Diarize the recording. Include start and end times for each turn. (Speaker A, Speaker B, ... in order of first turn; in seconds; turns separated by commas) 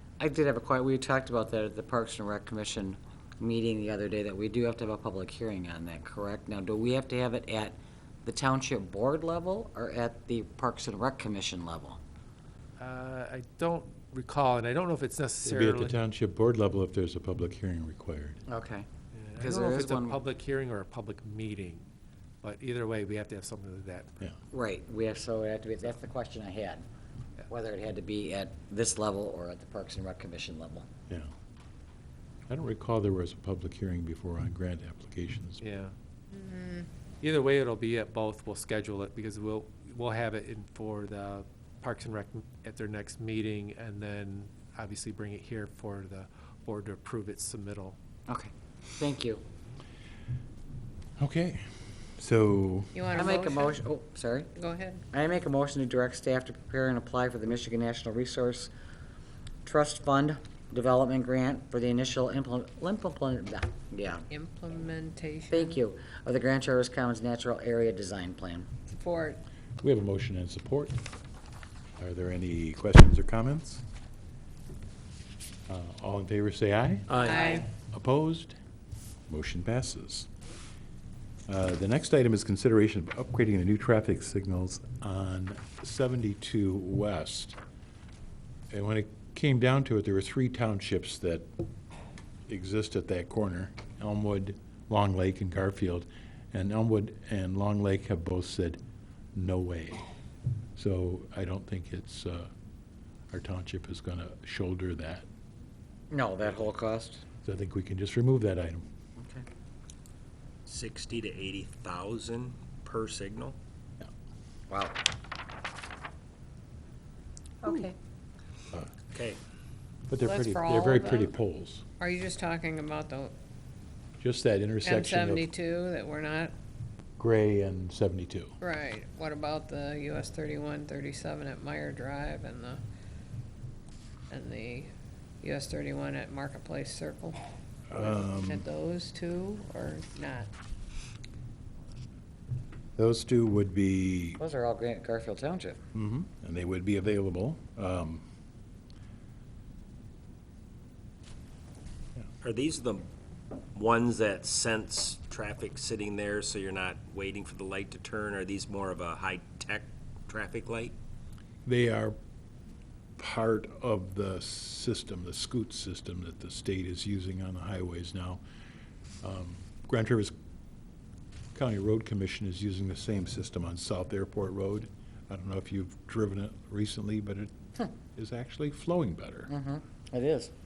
Speaker A: 0.2-12.0, Speaker B: 12.8-16.0, Speaker C: 15.4-18.4, Speaker A: 18.5-18.9, Speaker B: 19.1-21.8, Speaker A: 19.4-20.2, Speaker B: 22.4-24.1, Speaker A: 24.5-26.8, Speaker A: 27.5-30.9, Speaker C: 32.5-35.6, Speaker B: 35.6-35.9, Speaker D: 36.3-36.8, Speaker B: 37.2-48.0, Speaker A: 48.3-49.4, Speaker C: 51.2-51.6, Speaker C: 52.2-52.9, Speaker D: 52.9-53.8, Speaker A: 53.1-54.5, Speaker D: 54.5-55.0, Speaker A: 55.1-58.7, Speaker A: 59.6-64.2, Speaker D: 64.3-65.8, Speaker A: 65.5-68.7, Speaker D: 68.9-69.4, Speaker C: 69.8-71.0, Speaker C: 72.0-73.8, Speaker C: 75.7-77.1, Speaker E: 77.1-77.6, Speaker D: 77.2-77.7, Speaker C: 77.9-78.5, Speaker C: 79.3-80.3, Speaker C: 81.5-87.6, Speaker C: 88.7-91.5, Speaker C: 92.5-98.8, Speaker C: 99.3-100.0, Speaker C: 100.8-102.5, Speaker C: 103.3-105.2, Speaker A: 106.1-107.2, Speaker C: 107.4-108.8, Speaker A: 109.2-109.4, Speaker E: 110.7-113.6, Speaker A: 114.7-115.0, Speaker A: 117.6-117.9, Speaker E: 119.1-119.4, Speaker C: 120.1-121.8, Speaker D: 120.2-121.3, Speaker D: 122.0-123.3, Speaker C: 124.2-125.5, Speaker D: 124.8-126.5, Speaker C: 127.2-128.5, Speaker D: 128.6-132.8, Speaker D: 134.3-137.4, Speaker C: 137.9-138.6, Speaker D: 137.9-140.5, Speaker C: 143.0-144.4, Speaker A: 144.4-145.8, Speaker C: 145.9-148.2, Speaker E: 152.4-153.1, Speaker E: 153.7-160.9, Speaker C: 161.6-162.1, Speaker C: 163.2-168.4, Speaker C: 169.2-170.3, Speaker C: 171.5-177.5, Speaker C: 178.1-179.5, Speaker A: 179.5-180.5